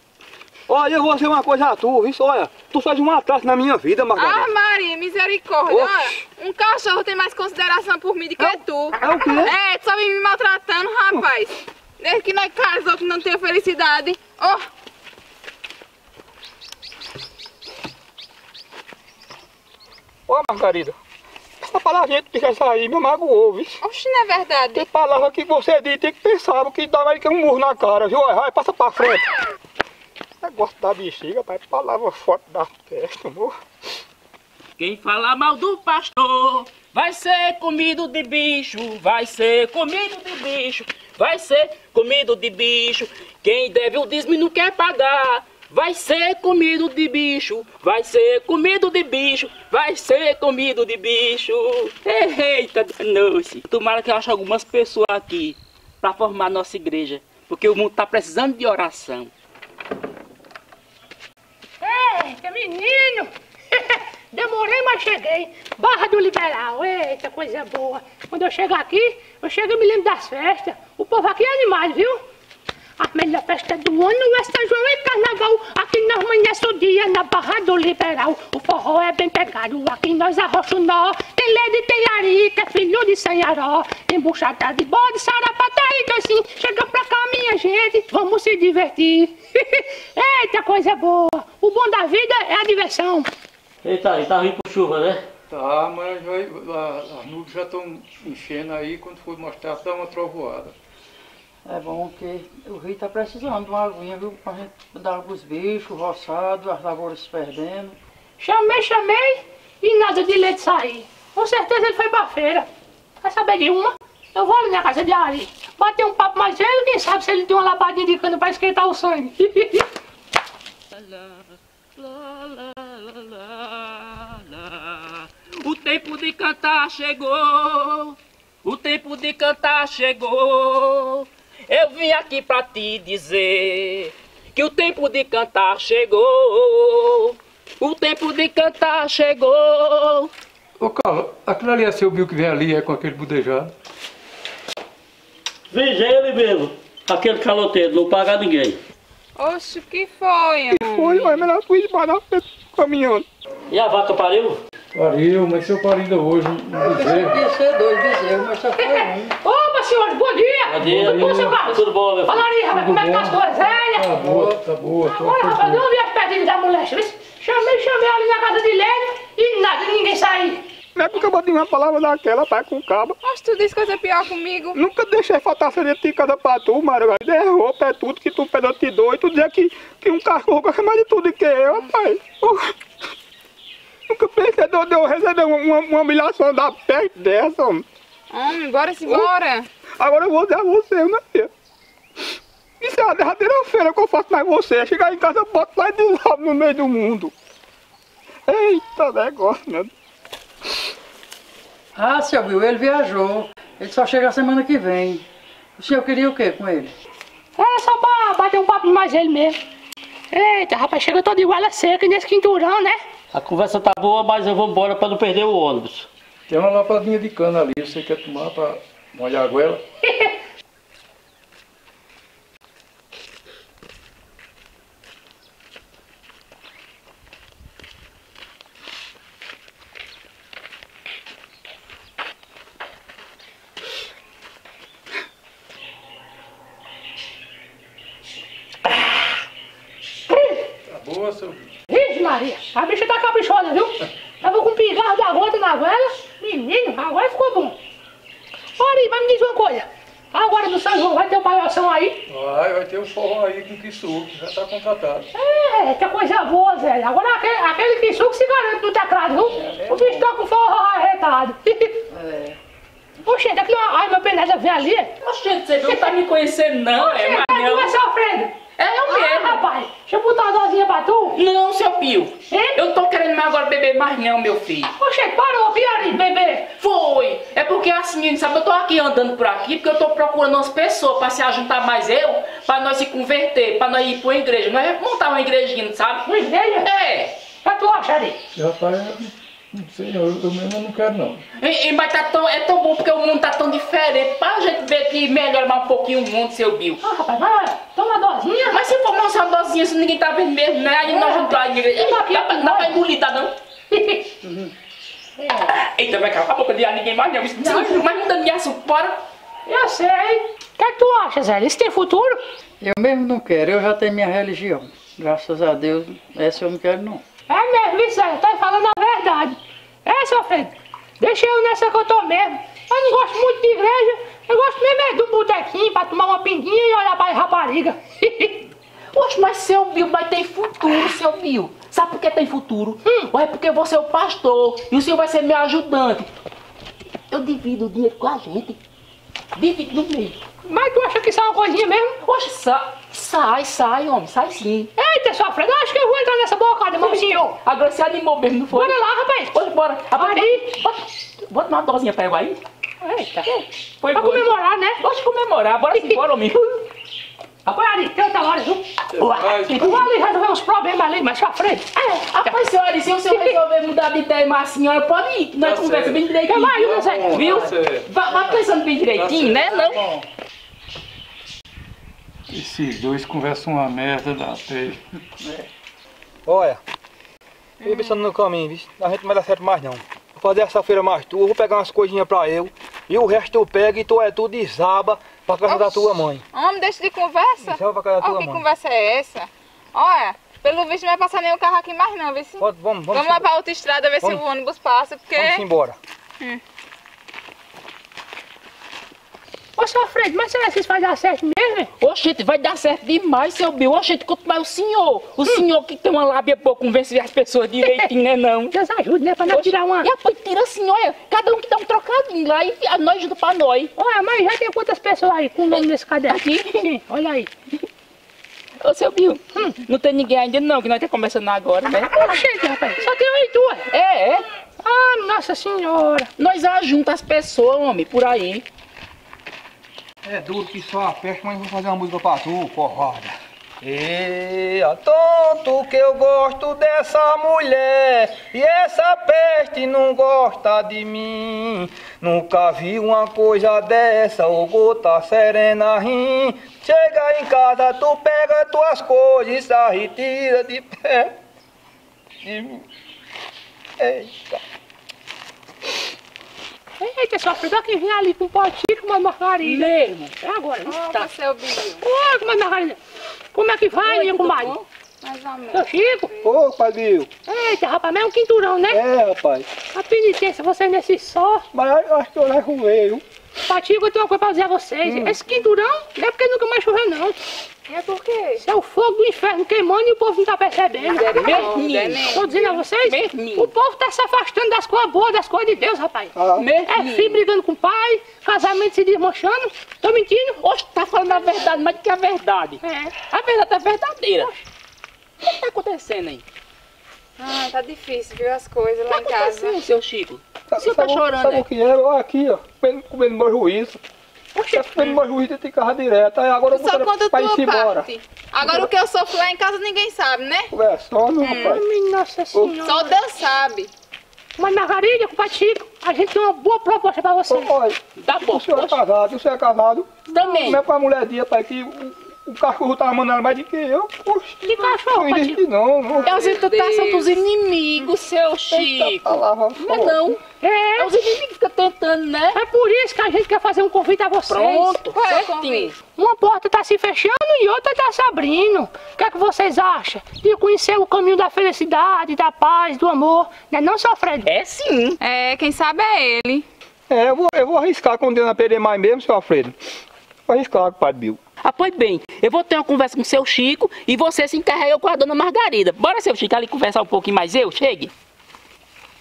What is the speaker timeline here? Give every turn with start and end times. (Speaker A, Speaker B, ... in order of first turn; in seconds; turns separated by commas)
Speaker A: 0.7-4.5, Speaker B: 4.1-14.6, Speaker A: 5.7-6.2, Speaker A: 8.4-9.5, Speaker A: 20.3-20.9, Speaker A: 21.6-23.8, Speaker B: 23.8-24.9, Speaker A: 24.7-29.2, Speaker A: 30.4-33.5, Speaker C: 34.8-59.3, Speaker D: 61.8-72.2, Speaker D: 73.0-93.3, Speaker E: 93.8-95.2, Speaker F: 95.5-100.7, Speaker G: 101.6-108.0, Speaker D: 108.4-112.7, Speaker D: 113.2-119.8, Speaker C: 120.9-121.4, Speaker C: 122.0-140.3, Speaker F: 140.8-143.7, Speaker E: 145.7-148.8, Speaker B: 149.4-151.4, Speaker A: 150.7-153.2, Speaker E: 153.7-154.6, Speaker F: 154.9-157.4, Speaker G: 156.7-159.3, Speaker D: 158.8-164.2, Speaker E: 160.7-162.5, Speaker F: 160.8-161.6, Speaker F: 162.6-165.8, Speaker G: 164.2-164.6, Speaker D: 165.0-170.6, Speaker A: 170.9-173.2, Speaker B: 173.2-174.8, Speaker A: 174.7-182.7, Speaker A: 184.1-187.8, Speaker B: 188.3-189.7, Speaker A: 189.1-189.3, Speaker A: 190.0-191.5, Speaker A: 192.8-197.3, Speaker A: 198.5-199.9, Speaker G: 201.9-205.2, Speaker G: 205.8-206.9, Speaker D: 207.6-209.6, Speaker D: 210.3-213.0, Speaker E: 213.3-216.1, Speaker F: 216.5-219.8, Speaker D: 220.0-220.3, Speaker D: 240.3-240.7, Speaker F: 240.9-241.7, Speaker D: 241.9-247.8, Speaker D: 248.8-252.2, Speaker F: 252.3-255.3, Speaker D: 255.3-262.0, Speaker G: 259.6-260.2, Speaker G: 262.1-262.6, Speaker D: 263.2-265.1, Speaker C: 265.2-267.9, Speaker D: 265.8-266.1, Speaker D: 266.9-268.5, Speaker C: 268.8-269.6, Speaker D: 269.1-271.4, Speaker C: 271.3-274.9, Speaker D: 272.5-272.8, Speaker D: 274.9-276.7, Speaker C: 276.7-287.4, Speaker D: 286.2-286.9, Speaker D: 287.6-288.4, Speaker F: 288.5-291.4, Speaker C: 291.6-297.0, Speaker D: 297.0-298.8, Speaker C: 298.7-303.5, Speaker D: 301.1-303.0, Speaker D: 303.9-304.3, Speaker G: 304.4-304.7, Speaker C: 305.6-309.2, Speaker D: 307.6-308.0, Speaker D: 309.6-312.4, Speaker G: 312.8-317.2, Speaker D: 317.5-328.6, Speaker C: 329.1-336.3, Speaker D: 333.0-333.3, Speaker C: 337.3-338.8, Speaker C: 339.5-340.4, Speaker D: 340.6-342.1, Speaker C: 342.2-344.9, Speaker D: 345.0-347.5, Speaker C: 347.0-349.0, Speaker D: 348.7-349.5, Speaker C: 349.5-352.6, Speaker D: 350.1-350.7, Speaker D: 353.0-353.5, Speaker C: 353.4-354.4, Speaker D: 354.1-355.0, Speaker C: 355.0-356.8, Speaker D: 355.9-356.2, Speaker D: 357.6-358.8, Speaker F: 359.1-360.1, Speaker C: 359.2-360.0, Speaker D: 359.8-361.9, Speaker C: 361.9-370.0, Speaker D: 363.2-363.5, Speaker F: 365.6-368.1, Speaker D: 366.5-367.4, Speaker F: 369.1-370.2, Speaker F: 372.5-375.0, Speaker A: 376.4-376.8, Speaker B: 377.8-378.2, Speaker A: 377.8-386.4, Speaker B: 385.6-395.6, Speaker A: 387.6-388.6, Speaker A: 392.6-393.5, Speaker A: 395.4-395.9, Speaker D: 399.8-401.9, Speaker C: 402.0-408.8, Speaker D: 408.7-410.1, Speaker C: 409.4-413.9, Speaker D: 413.9-417.5, Speaker C: 415.7-416.9, Speaker C: 418.8-422.4, Speaker D: 422.0-423.9, Speaker C: 423.9-424.4, Speaker D: 424.8-426.3, Speaker C: 426.4-428.6, Speaker A: 430.2-451.3, Speaker A: 452.4-452.8, Speaker A: 454.0-454.6, Speaker D: 457.0-459.9, Speaker C: 459.6-460.3, Speaker D: 460.4-461.0, Speaker B: 460.8-462.0, Speaker D: 462.0-463.0, Speaker D: 463.5-464.7, Speaker C: 464.0-464.8, Speaker B: 464.4-466.5, Speaker D: 465.7-466.3, Speaker A: 466.4-467.3, Speaker D: 467.5-469.0, Speaker A: 468.9-469.7, Speaker D: 469.9-471.6, Speaker A: 471.7-473.2, Speaker D: 473.7-477.4, Speaker A: 475.0-475.4, Speaker B: 477.9-478.6, Speaker D: 478.6-481.7, Speaker B: 481.0-482.6, Speaker C: 481.3-483.7, Speaker D: 482.2-486.3, Speaker A: 486.3-486.7, Speaker C: 486.6-487.4, Speaker D: 486.9-490.6, Speaker C: 490.6-494.5, Speaker D: 492.8-493.1, Speaker C: 495.4-496.4, Speaker B: 497.4-499.8, Speaker C: 499.1-501.6, Speaker A: 500.7-504.0, Speaker D: 504.5-505.0, Speaker A: 504.7-508.1, Speaker B: 506.7-510.7, Speaker A: 508.6-508.9, Speaker A: 510.7-511.8, Speaker B: 511.4-511.8, Speaker D: 511.5-513.2, Speaker B: 512.8-513.9, Speaker D: 514.6-517.7, Speaker A: 517.5-526.4, Speaker C: 518.2-519.0, Speaker C: 520.3-520.8, Speaker D: 524.6-525.6, Speaker B: 526.1-527.4, Speaker C: 526.2-530.4, Speaker A: 528.7-530.2, Speaker D: 530.6-531.1, Speaker C: 531.0-532.6, Speaker D: 532.5-535.0, Speaker C: 534.5-535.9, Speaker B: 535.1-535.9, Speaker D: 536.1-544.5, Speaker C: 544.4-545.2, Speaker B: 545.2-546.6, Speaker A: 547.1-549.8, Speaker A: 550.5-551.4, Speaker C: 551.6-558.1